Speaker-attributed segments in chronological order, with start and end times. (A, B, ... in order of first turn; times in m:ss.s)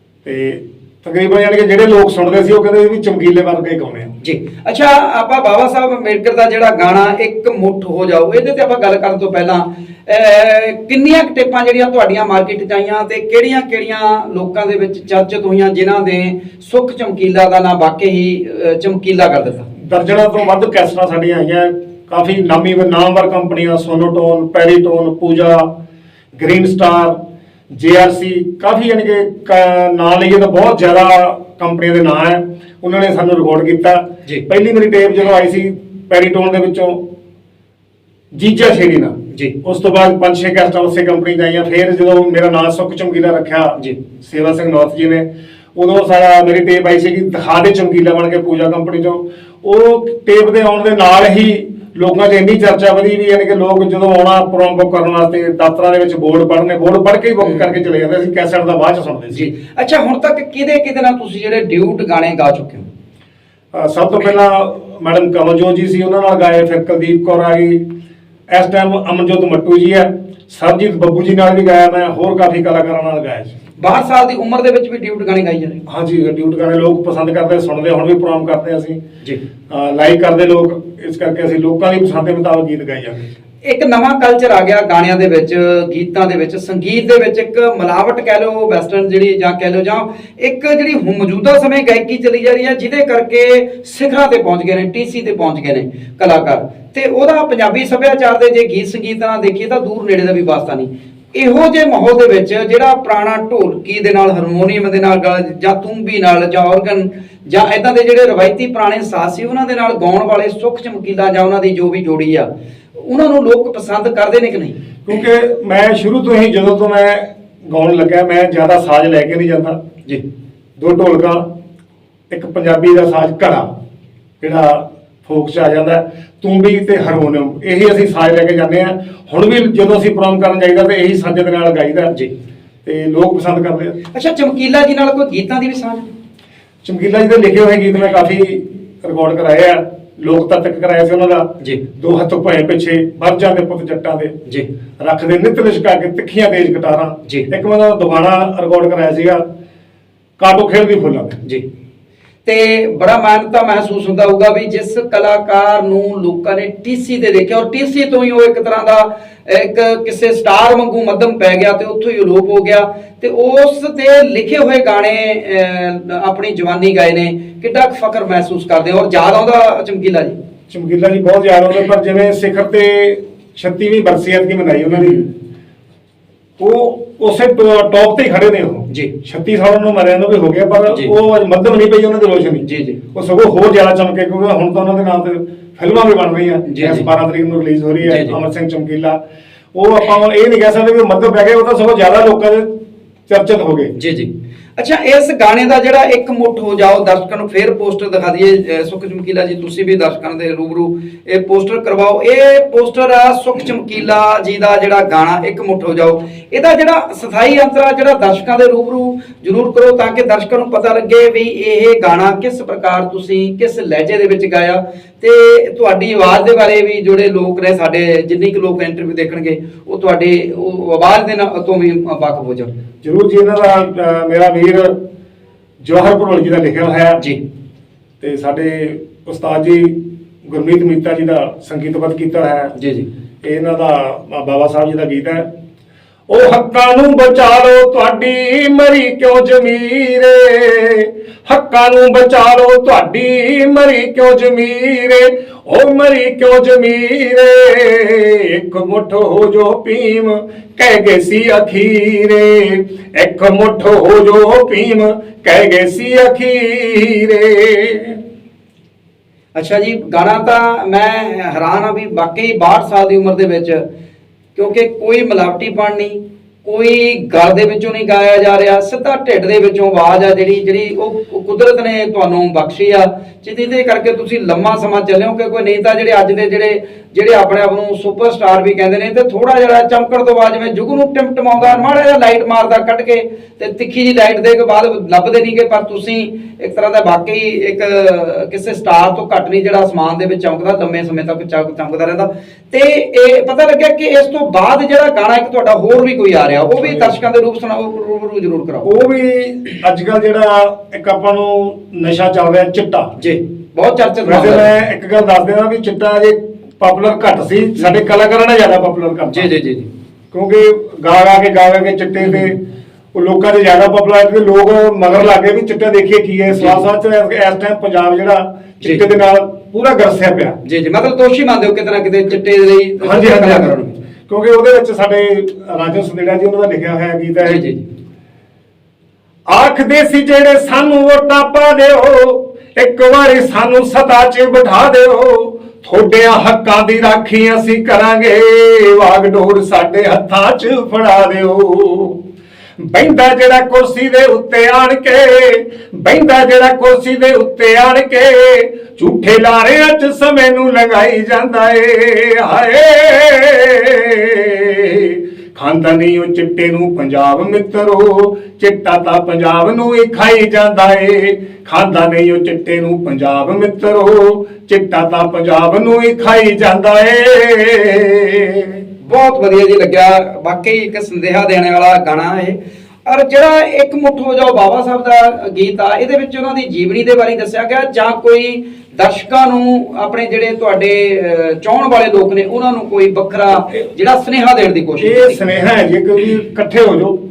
0:00.2-0:04.2 A
0:04.2-0:19.7 B
0:19.7-0:25.7 A
0:26.4-0:27.2 A
0:27.7-0:37.0 A
0:38.3-0:59.5 A
0:57.4-0:57.7 B
0:59.3-1:02.9 B
1:03.7-1:07.8 A
1:08.5-1:13.6 A
1:13.8-1:15.8 B
1:15.9-1:19.0 A
1:19.7-1:23.2 A
1:23.6-1:54.8 B
1:55.0-1:59.8 A
2:00.8-2:01.4 A
2:02.3-2:03.7 A
2:04.4-2:12.1 A
2:12.8-2:14.0 A
2:14.1-2:16.1 B
2:16.8-2:24.4 A
2:25.0-2:29.4 A
2:30.4-2:31.4 A
2:32.4-2:50.4 B
2:50.7-2:55.3 A
2:56.6-3:09.2 A
3:02.6-3:03.0 B
3:06.7-3:07.1 B
3:08.0-3:08.4 B
3:09.7-3:12.7 A
3:13.3-3:13.9 A
3:14.0-3:42.7 B
3:43.0-3:45.0 A
3:45.8-3:47.2 A
3:48.2-3:52.8 A
3:52.8-3:53.1 B
3:53.4-3:55.5 A
3:56.3-4:18.2 A
4:19.6-4:23.8 B
4:24.6-4:58.9 B
4:58.8-5:03.1 A
5:03.2-5:04.7 B
5:04.2-5:09.5 A
5:09.3-5:09.9 B
5:10.3-5:12.6 A
5:13.1-5:20.6 A
5:16.5-5:16.8 B
5:20.6-5:24.0 B
5:23.0-5:23.8 A
5:24.3-5:27.6 A
5:27.4-5:27.8 B
5:29.5-5:42.2 A
5:42.9-6:08.8 A
6:09.0-6:25.4 B
6:25.0-6:27.2 A